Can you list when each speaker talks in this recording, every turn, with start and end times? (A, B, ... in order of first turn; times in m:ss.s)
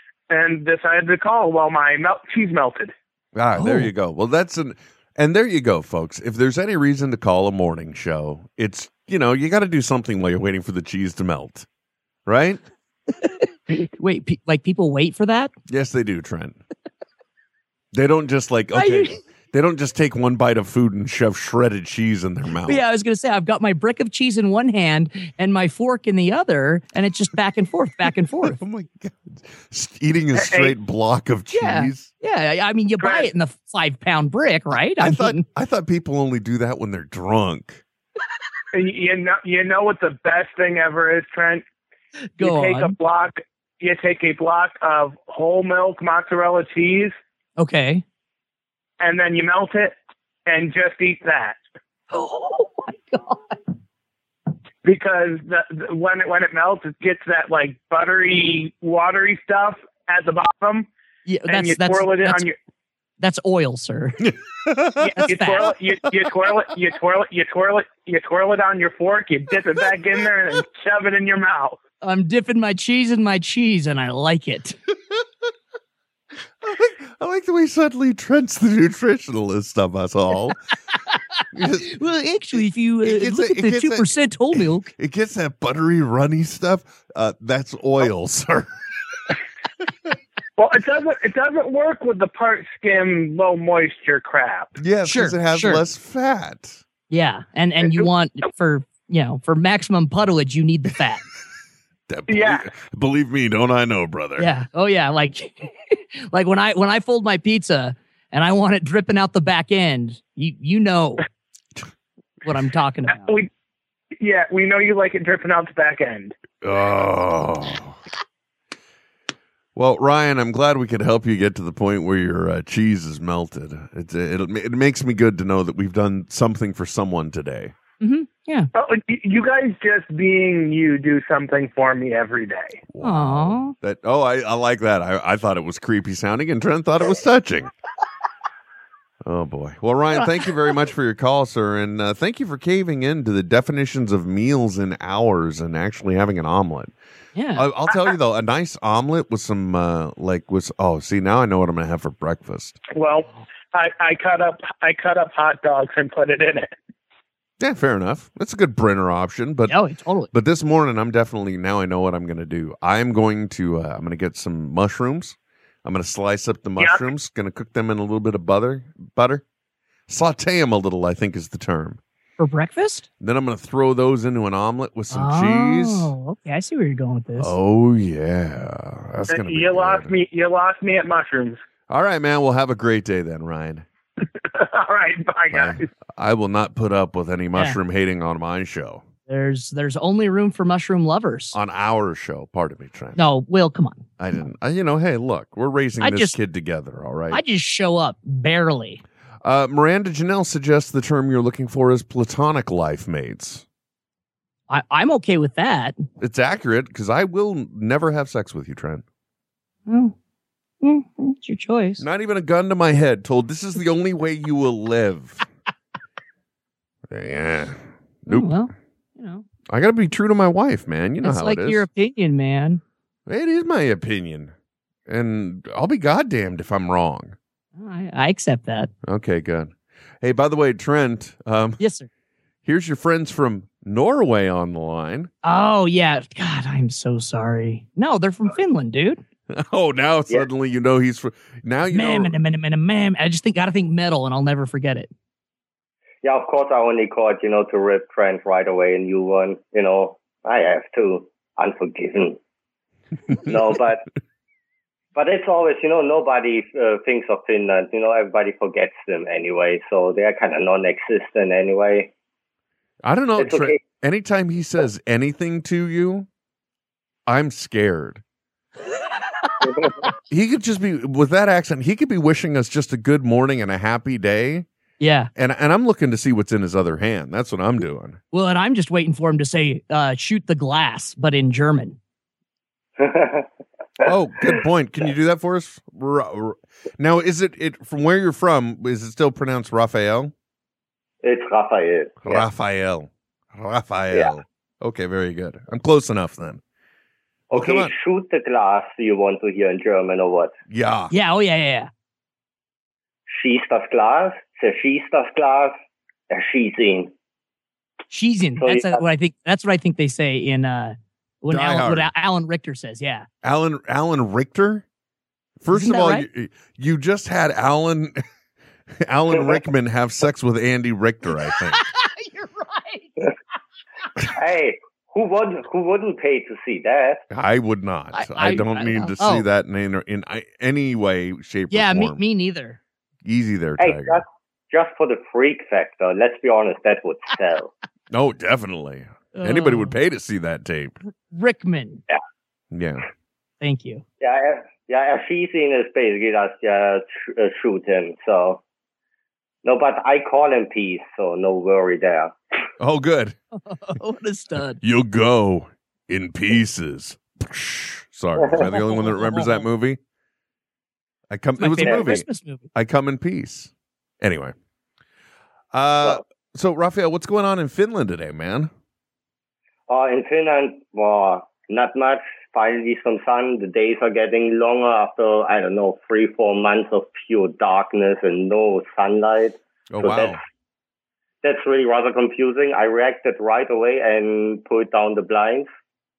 0:00.3-0:02.9 A
0:03.3-0:11.7 B
0:03.6-0:03.9 C
0:12.3-0:12.6 B
0:13.8-0:15.5 C
0:15.7-0:16.6 B
0:17.9-0:22.8 B
0:18.7-0:19.2 C
0:22.7-0:28.6 C
0:28.4-0:32.1 B
0:30.4-0:30.7 A
0:31.5-0:35.4 C
0:33.0-0:33.3 A
0:35.0-0:37.8 B
0:38.7-0:41.6 A
0:42.4-0:43.0 C
0:42.4-0:47.1 A
0:47.6-0:48.0 C
0:49.0-0:51.6 A
0:52.1-0:53.6 C
0:54.8-1:00.9 A
1:01.3-1:02.5 C
1:01.5-1:02.6 A
1:03.2-1:04.3 C
1:04.2-1:06.3 B
1:05.0-1:11.8 A
1:05.1-1:05.7 C
1:12.0-1:14.8 C
1:16.6-1:20.6 B
1:21.5-1:28.7 B
1:21.8-1:24.9 C
1:30.6-1:34.8 A
1:34.8-1:36.8 B
1:35.1-1:35.8 C
1:37.1-1:41.2 C
1:42.1-1:44.5 B
1:42.3-1:42.7 A
1:44.4-1:51.2 C
1:52.4-1:53.4 C
1:53.2-1:53.5 A
1:54.2-1:56.4 A
1:56.6-1:58.0 B
1:59.8-2:07.7 B
2:08.0-2:08.7 C
2:08.8-2:12.8 A
2:12.9-2:17.7 B
2:13.0-2:13.7 C
2:19.2-2:26.9 B
2:27.4-2:27.7 C
2:27.6-2:32.8 B
2:33.0-2:36.7 A
2:37.6-2:39.8 B
2:39.7-2:40.3 C
2:40.3-2:49.4 B
2:50.1-2:52.0 B
2:52.4-2:53.1 C
2:53.2-2:56.1 B
2:55.1-2:57.6 C
2:57.4-3:00.1 B
2:59.3-3:01.6 A
3:01.9-3:03.9 B
3:04.5-3:05.9 A
3:05.5-3:09.0 B
3:09.3-3:11.6 C
3:11.5-3:13.2 B
3:13.2-3:14.0 C
3:14.2-3:17.4 B
3:16.0-3:16.4 C
3:17.3-3:19.0 C
3:19.4-3:23.6 B
3:24.7-3:26.0 C
3:26.2-3:29.0 B
3:29.9-3:30.1 C
3:30.8-3:32.0 C
3:32.0-3:35.4 B
3:37.1-3:38.5 B
3:38.3-3:39.4 C
3:39.7-3:41.9 B
3:41.2-3:42.8 C
3:43.3-3:44.5 B
3:45.1-3:47.4 B
3:47.8-3:48.9 C
3:49.0-3:51.8 B
3:51.8-3:52.1 C
3:52.6-3:55.3 B
3:55.4-3:59.2 C
3:59.5-4:02.4 B
4:01.9-4:05.1 C
4:06.2-4:12.4 D
4:13.4-4:14.0 D
4:15.2-4:22.1 D
4:23.0-4:26.3 B
4:23.4-4:23.8 D
4:27.3-4:28.2 B
4:29.6-4:29.9 D
4:30.3-4:34.7 B
4:35.0-4:35.3 C
4:35.4-4:38.2 B
4:38.3-4:42.0 C
4:43.0-4:43.5 D
4:44.0-4:50.3 B
4:51.2-4:52.5 D
4:52.2-4:56.6 B
4:57.5-5:00.5 D
4:57.5-4:57.9 B
5:00.7-5:01.1 B
5:01.1-5:01.9 C
5:03.3-5:05.8 D
5:06.3-5:07.1 D
5:08.1-5:13.3 C
5:08.6-5:09.0 D
5:11.5-5:12.1 B
5:13.4-5:14.8 B
5:15.6-5:18.2 B
5:15.7-5:16.3 C
5:18.9-5:21.8 B
5:19.3-5:19.6 D
5:21.7-5:23.3 C
5:24.3-5:27.2 D
5:27.3-5:32.2 B
5:28.1-5:29.5 C
5:31.7-5:32.8 C
5:33.2-5:34.2 B
5:33.8-5:37.7 D
5:38.1-5:41.0 B
5:39.4-5:40.0 C
5:41.3-5:42.0 C
5:42.7-5:43.0 B
5:43.6-5:44.0 C
5:44.2-5:48.6 D
5:49.6-5:52.3 D
5:52.8-5:53.4 B
5:53.5-5:54.8 C
5:54.8-6:00.0 B
5:58.6-5:59.7 C
6:01.3-6:04.6 B
6:01.6-6:02.7 C
6:01.8-6:02.2 D
6:05.7-6:08.7 B
6:09.9-6:20.4 D
6:19.9-6:20.4 B
6:21.4-6:25.7 D